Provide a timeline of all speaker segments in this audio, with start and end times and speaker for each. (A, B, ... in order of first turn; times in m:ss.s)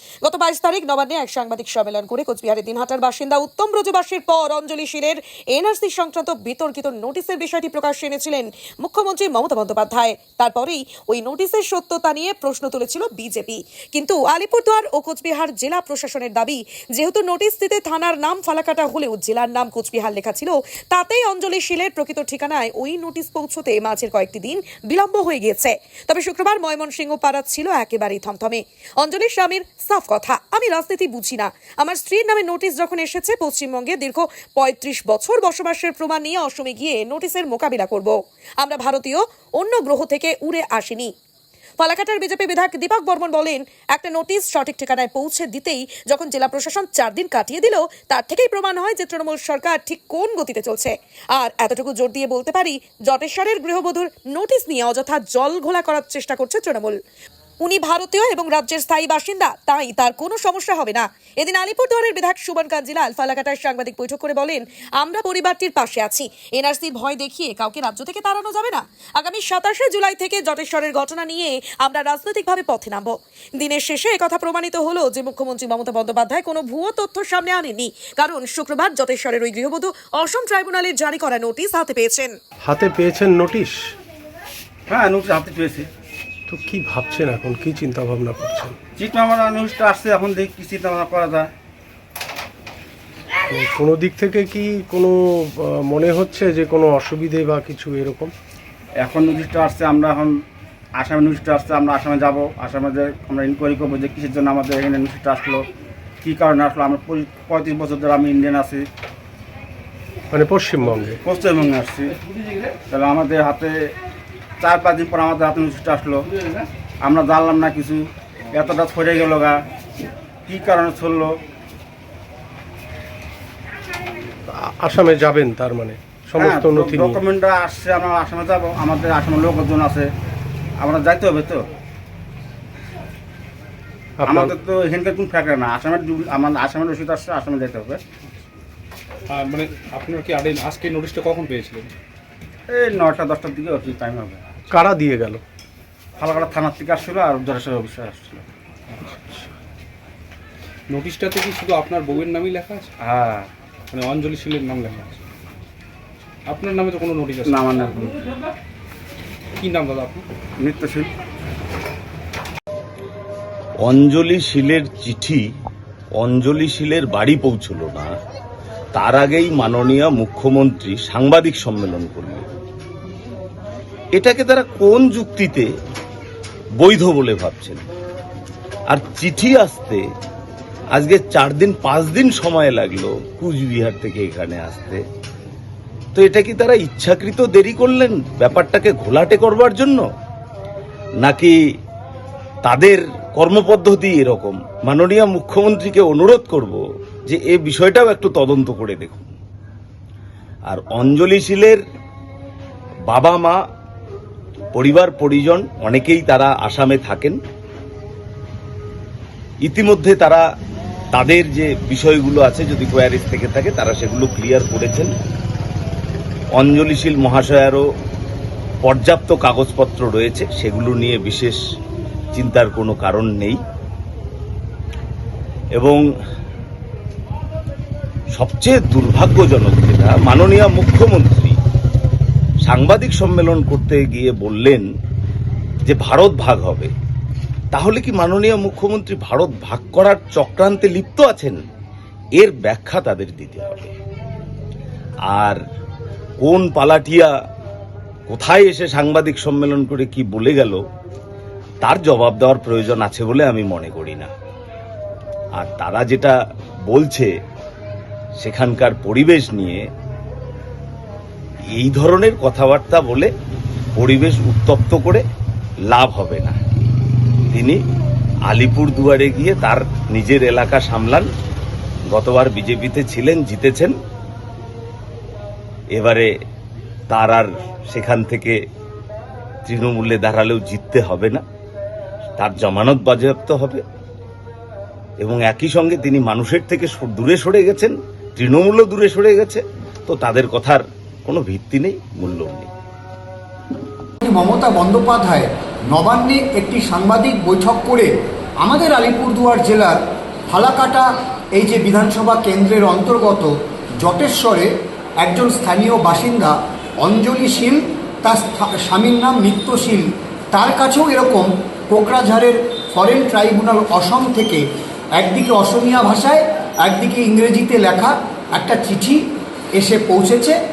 0:00.2-0:41.1 A
0:41.8-0:57.0 A
0:57.6-1:22.3 A
1:22.6-1:23.9 B
1:24.9-1:25.9 C
1:26.5-1:28.8 B
1:29.0-1:31.5 C
1:33.5-1:38.3 B
1:39.0-1:40.4 C
1:40.9-1:45.7 C
1:46.2-1:48.9 C
1:50.3-1:51.2 B
1:51.2-1:52.2 C
1:52.9-1:53.9 C
1:54.6-1:59.6 C
2:00.5-2:01.4 C
2:04.5-2:07.2 B
2:06.4-2:10.1 C
2:10.8-2:11.7 C
2:14.2-2:14.5 B
2:14.3-2:18.0 C
2:19.3-2:21.9 D
2:22.7-2:24.4 C
2:24.7-2:25.4 B
2:26.2-2:28.4 C
2:29.0-2:29.5 B
2:30.9-2:33.0 D
2:33.0-2:33.5 C
2:33.9-2:35.2 D
2:36.5-2:37.6 D
2:37.4-2:38.2 C
2:39.6-2:40.3 D
2:40.6-2:41.1 C
2:43.8-2:45.4 E
2:46.2-2:48.1 E
2:49.0-2:52.5 E
2:54.2-2:55.7 E
2:56.8-2:57.8 E
2:58.9-3:00.0 E
3:01.0-3:05.0 E
3:06.2-3:10.0 E
3:11.2-3:11.6 E
3:12.6-3:19.3 E
3:20.7-3:21.8 E
3:23.1-3:23.6 E
3:24.7-3:27.4 E
3:29.6-3:30.4 E
3:31.1-3:35.1 E
3:36.6-3:37.8 E
3:38.8-3:41.6 E
3:42.4-3:43.6 E
3:48.4-3:51.6 E
3:52.7-3:54.8 E
3:55.8-3:56.9 E
3:57.7-4:01.6 E
4:02.4-4:03.9 E
4:05.3-4:05.6 E
4:06.4-4:07.3 E
4:08.3-4:10.8 E
4:11.8-4:14.3 E
4:15.6-4:16.3 E
4:16.9-4:17.3 E
4:18.4-4:19.8 E
4:21.8-4:23.3 E
4:24.0-4:25.2 E
4:25.9-4:26.6 E
4:27.5-4:27.8 E
4:28.5-4:31.3 E
4:32.1-4:33.9 E
4:36.0-4:36.3 E
4:37.1-4:38.6 E
4:39.6-4:41.4 E
4:42.4-4:43.8 E
4:45.2-4:52.7 E
4:54.2-4:58.1 F
4:58.6-5:00.0 F
5:00.5-5:03.5 F
5:04.0-5:04.7 F
5:05.2-5:14.6 F
5:15.2-5:19.2 F
5:19.8-5:20.6 F